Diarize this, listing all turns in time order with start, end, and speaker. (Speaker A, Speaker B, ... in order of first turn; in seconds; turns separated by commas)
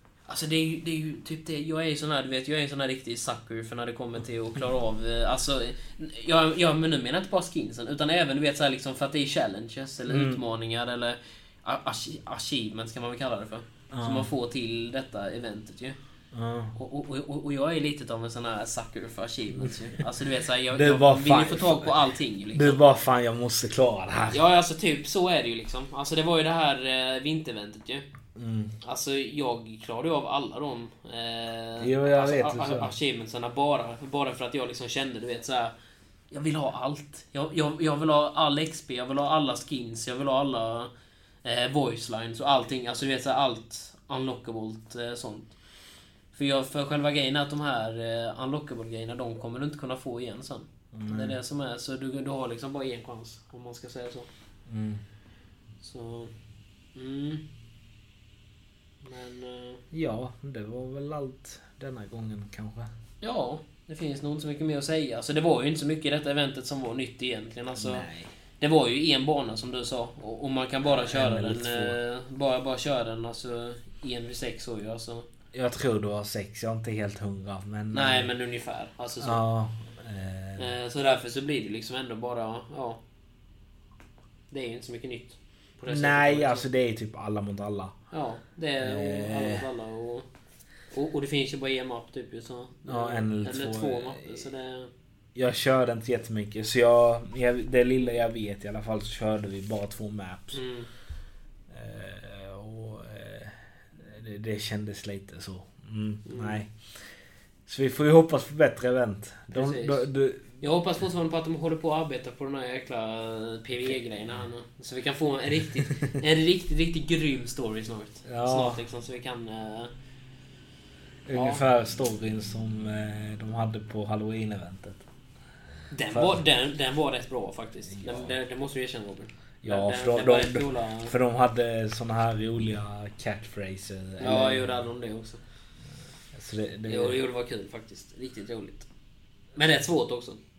Speaker A: 0.3-16.0, Speaker B: 10.1-10.4, Speaker B: 13.9-14.3, Speaker B: 16.3-16.8, Speaker A: 16.8-23.0, Speaker B: 19.6-20.1, Speaker B: 20.7-22.0, Speaker B: 22.5-24.4, Speaker A: 24.3-28.1, Speaker B: 28.4-28.7, Speaker A: 28.8-35.7, Speaker B: 31.8-32.9, Speaker A: 36.3-40.9, Speaker A: 41.4-45.5, Speaker A: 46.3-54.3, Speaker B: 50.9-51.4, Speaker B: 54.7-55.0, Speaker A: 55.8-56.3, Speaker A: 57.0-57.5, Speaker A: 59.0-59.8, Speaker B: 59.9-62.9, Speaker A: 63.2-68.1, Speaker B: 67.8-68.3, Speaker A: 68.6-75.3, Speaker B: 70.8-72.0, Speaker B: 75.5-78.3, Speaker A: 77.9-79.4, Speaker B: 79.2-80.7, Speaker A: 80.6-83.0, Speaker A: 84.5-86.7, Speaker B: 85.9-87.9, Speaker A: 88.1-90.3, Speaker B: 88.8-89.7, Speaker A: 90.9-94.9, Speaker B: 92.9-94.4, Speaker B: 95.3-100.6, Speaker A: 100.5-100.9, Speaker B: 101.7-106.7, Speaker A: 106.2-106.6, Speaker B: 107.7-110.5, Speaker A: 109.5-110.1, Speaker A: 110.6-119.9, Speaker B: 118.2-118.8, Speaker B: 121.3-125.0, Speaker A: 121.3-121.7, Speaker A: 125.9-131.2, Speaker B: 126.1-126.4, Speaker B: 127.9-128.3, Speaker B: 129.6-134.9, Speaker A: 134.2-135.4, Speaker B: 136.3-137.2, Speaker A: 136.9-138.9, Speaker A: 139.6-140.4